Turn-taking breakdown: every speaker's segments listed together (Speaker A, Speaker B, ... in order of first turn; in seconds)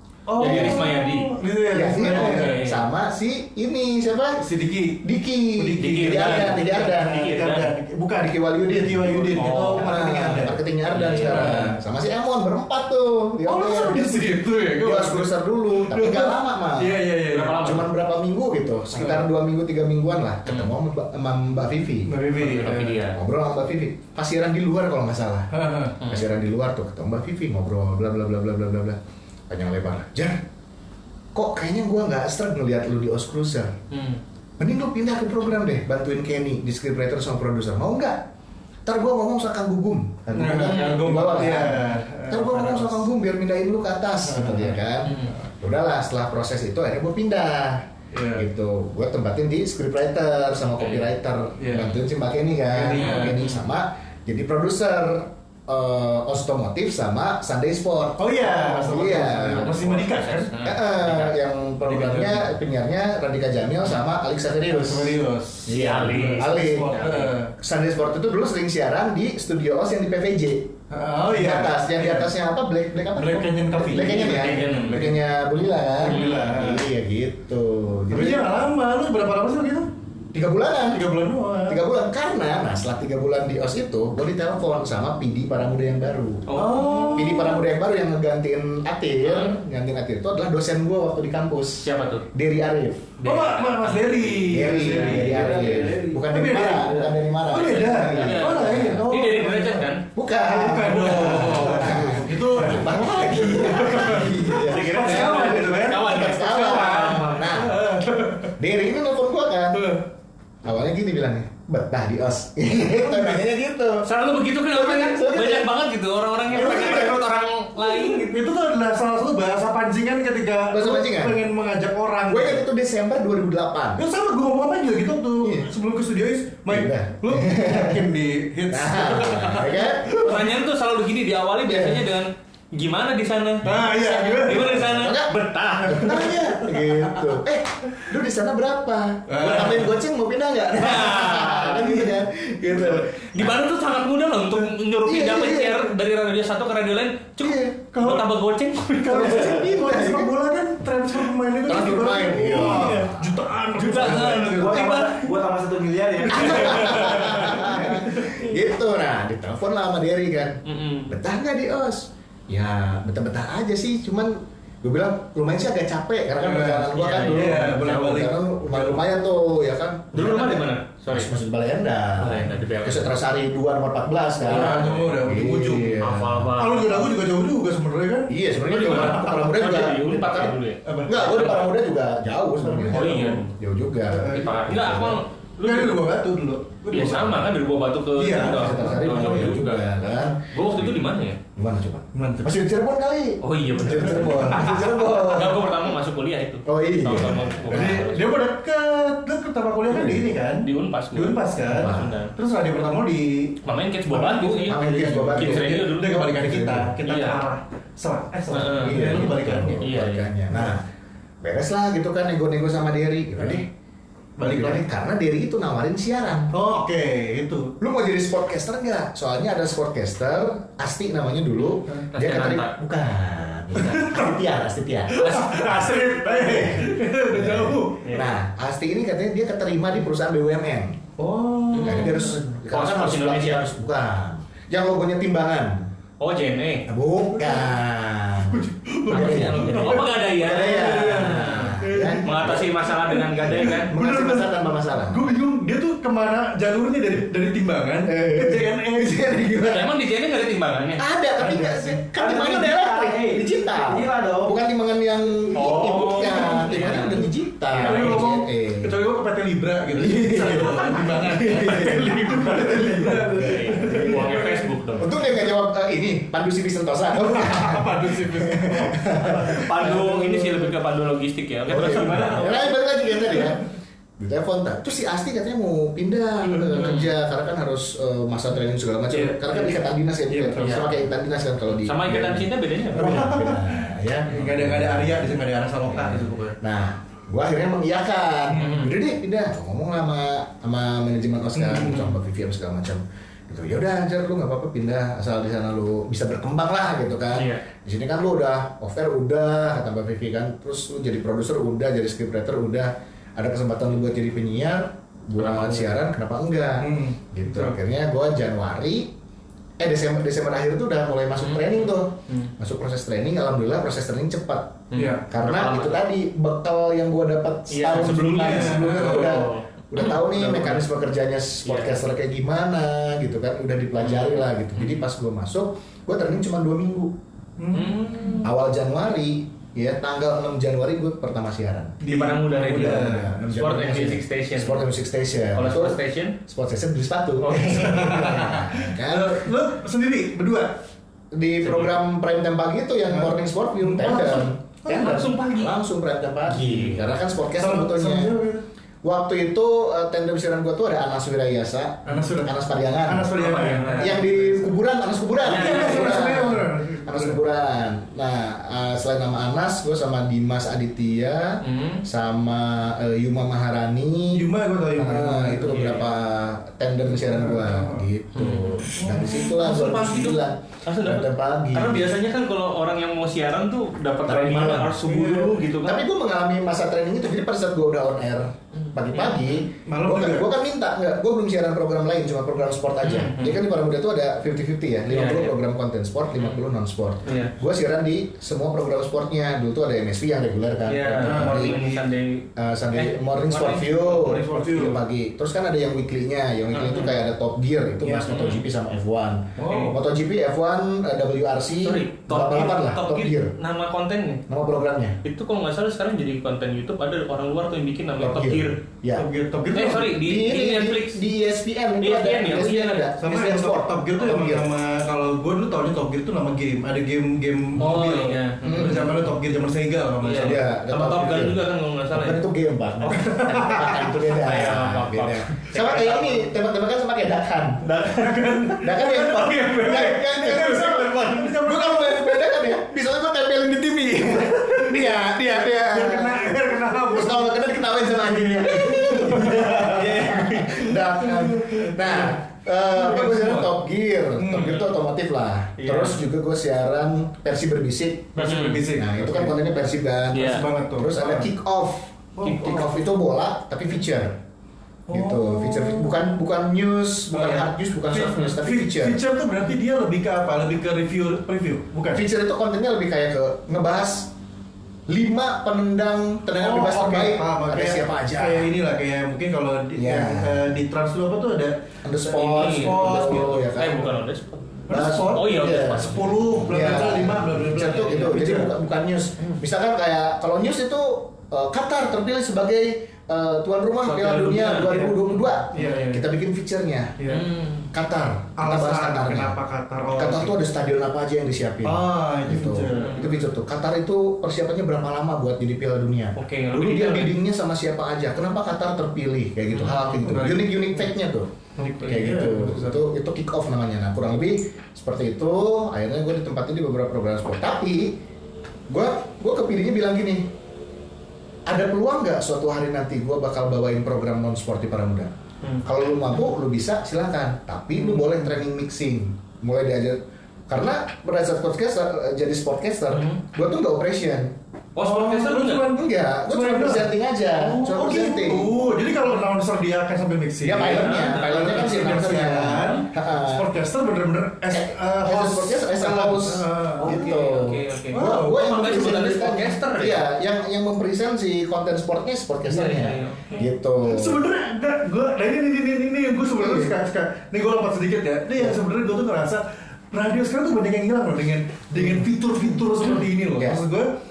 Speaker A: 0.3-2.6, 4.4-5.0, 5.6-10.6, 11.1-11.8, 13.4-17.7, 22.1-23.0, 25.5-26.0, 40.3-43.1, 44.2-44.8, 48.1-48.5, 51.6-52.0, 52.7-53.4, 58.2-60.5, 61.8-62.6, 64.7-67.5, 70.9-72.3, 73.2-75.1, 76.0-76.9, 78.1-79.9, 80.9-81.8, 86.5-87.6, 93.2-108.5, 109.7-110.0, 112.8-113.4, 116.6-117.1, 118.0-122.7, 124.0-130.5, 133.6-134.9, 135.9-137.3, 139.3-139.9, 141.6-142.2, 142.7-143.1, 147.9-148.3, 148.8-155.3, 156.2-158.5, 166.4-169.0, 174.4-176.0, 176.6-179.5, 180.8-181.4, 182.6-183.4, 184.1-184.7, 185.6-187.5, 188.2-189.6, 192.1-192.6, 194.0-195.0, 197.7-203.6, 204.1-209.8, 210.5-210.8, 214.4-214.8, 216.5-217.7, 223.8-224.3, 225.1-228.1, 231.2-232.3, 237.4-237.8, 238.5-249.6, 251.4-252.0, 256.1-257.1, 257.7-265.3, 267.1-270.6, 271.7-272.6, 273.2-273.6, 279.1-280.9, 282.9-286.6, 288.5-288.8, 291.6-292.2, 306.8-307.8, 315.0-315.2, 317.9-319.5, 320.3-320.8, 327.6-328.3, 332.0-333.4, 337.6-340.8, 343.1-345.2, 347.6-348.6, 352.1-354.7, 355.5-357.4, 364.3-365.9, 367.1-368.1, 369.0-369.6, 375.0-375.6, 379.9-380.5, 391.1-392.0, 394.1-395.0, 398.0-398.4, 399.6-400.0, 409.2-410.1, 413.2-420.7, 423.1-424.1, 428.0-432.8, 434.4-442.4, 442.9-443.7, 444.4-444.8, 448.4-449.6, 450.4-451.5, 452.4-452.9, 455.1-456.1, 457.3-462.2, 466.5-473.7, 474.9-478.7, 485.7-486.2, 487.2-487.5, 488.6-490.6, 491.8-493.3, 500.0-500.8, 501.8-503.0, 525.0-537.1, 538.1-539.1, 544.1-554.1
Speaker B: 0.4-1.4, 1.9-2.8, 5.8-7.7, 9.4-9.8, 10.9-11.7, 17.3-17.9, 22.4-23.2, 33.9-34.2, 40.7-41.3, 45.0-45.4, 50.8-51.1, 52.9-53.6, 59.5-61.3, 65.7-67.3, 73.9-75.2, 76.0-76.5, 86.5-87.4, 89.2-89.6, 91.8-92.3, 93.2-95.5, 97.6-100.0, 101.1-102.1, 103.9-107.7, 114.0-118.4, 130.1-133.7, 134.3-136.2, 140.8-141.8, 143.3-149.5, 153.8-155.2, 156.6-157.2, 160.7-161.1, 166.9-168.2, 170.1-171.3, 172.2-173.1, 174.5-175.3, 176.0-177.1, 178.7-181.7, 182.9-183.5, 184.3-186.1, 186.9-191.4, 193.4-198.4, 200.6-202.3, 203.6-204.8, 205.3-206.4, 207.0-207.4, 208.5-210.3, 222.1-222.8, 225.2-226.9, 228.0-228.3, 231.7-233.7, 236.2-236.9, 239.1-243.9, 249.7-251.0, 255.5-258.2, 260.6-265.2, 269.2-272.7, 276.7-277.1, 280.6-281.0, 281.8-283.4, 288.6-288.9, 297.3-297.6, 305.4-305.9, 311.4-312.5, 314.9-316.0, 317.7-320.6, 321.6-322.0, 324.0-325.0, 327.7-328.5, 332.0-334.8, 335.5-336.4, 337.4-338.3, 341.6-341.9, 344.9-345.8, 346.5-347.1, 353.4-354.2, 355.4-356.4, 361.6-362.0, 365.7-366.1, 368.3-376.0, 378.8-379.6, 383.0-383.6, 385.1-385.6, 386.4-386.6, 387.3-387.5, 390.9-394.2, 396.7-397.2, 398.3-398.6, 399.6-399.9, 401.8-404.4, 405.2-408.8, 409.7-411.2, 412.0-413.1, 417.8-419.3, 420.2-422.4, 423.6-426.5, 427.8-428.5, 429.7-430.0, 430.7-431.5, 440.0-440.5, 444.6-444.8, 445.8-446.2, 448.4-448.9, 450.3-450.7, 452.4-452.9, 472.3-477.0, 477.8-478.3, 484.0-486.1, 487.3-487.9, 492.9-493.3, 496.4-497.4, 499.7-500.1, 523.1-523.4, 525.0-525.9, 530.8-533.0, 537.0-540.2, 542.7-543.7
Speaker C: 0.4-0.9, 1.7-4.4, 5.0-7.3, 8.2-17.0, 17.6-22.1, 23.1-25.5, 26.1-29.0, 29.5-30.4, 31.4-33.7, 34.6-38.3, 38.9-59.8, 60.6-67.0, 67.6-70.8, 71.3-78.5, 80.3-81.1, 81.7-86.5, 87.1-93.1, 94.5-99.1, 100.2-107.8, 108.6-109.9, 110.6-114.1, 114.7-115.7, 116.5-117.2, 120.7-121.4, 122.3-124.0, 125.4-125.7, 126.7-128.1, 128.7-130.2, 131.7-132.1, 133.7-143.7, 145.1-145.9, 147.4-147.8, 149.1-150.3, 151.6-153.3, 156.3-176.5, 178.3-185.2, 188.4-191.0, 191.6-195.7, 196.7-198.0, 199.9-200.3, 201.7-202.2, 204.7-207.0, 208.8-210.8, 211.4-213.7, 214.4-216.5, 217.8-231.0, 231.8-235.9, 236.9-242.7, 243.5-245.3, 248.1-249.9, 251.0-259.0, 259.9-262.6, 265.0-270.2, 271.7-273.6, 274.2-309.1, 309.8-327.2, 328.4-332.0, 332.8-339.5, 341.3-348.4, 349.0-353.4, 354.0-372.2, 374.3-375.0, 375.8-391.8, 392.6-403.6, 404.5-405.2, 408.2-409.3, 410.1-414.7, 418.6-419.1, 420.4-427.9, 428.8-448.4, 448.9-454.4, 455.1-459.2, 462.1-464.3, 465.1-468.7, 469.9-470.7, 472.0-474.1, 474.9-487.1, 487.9-501.5, 502.1-508.2, 508.9-510.5, 511.7-515.3, 515.8-524.5, 525.9-528.7, 530.6-533.7, 534.7-544.4, 546.6-547.0, 553.6-553.8
Speaker D: 95.3-96.2, 154.4-157.1, 252.1-254.6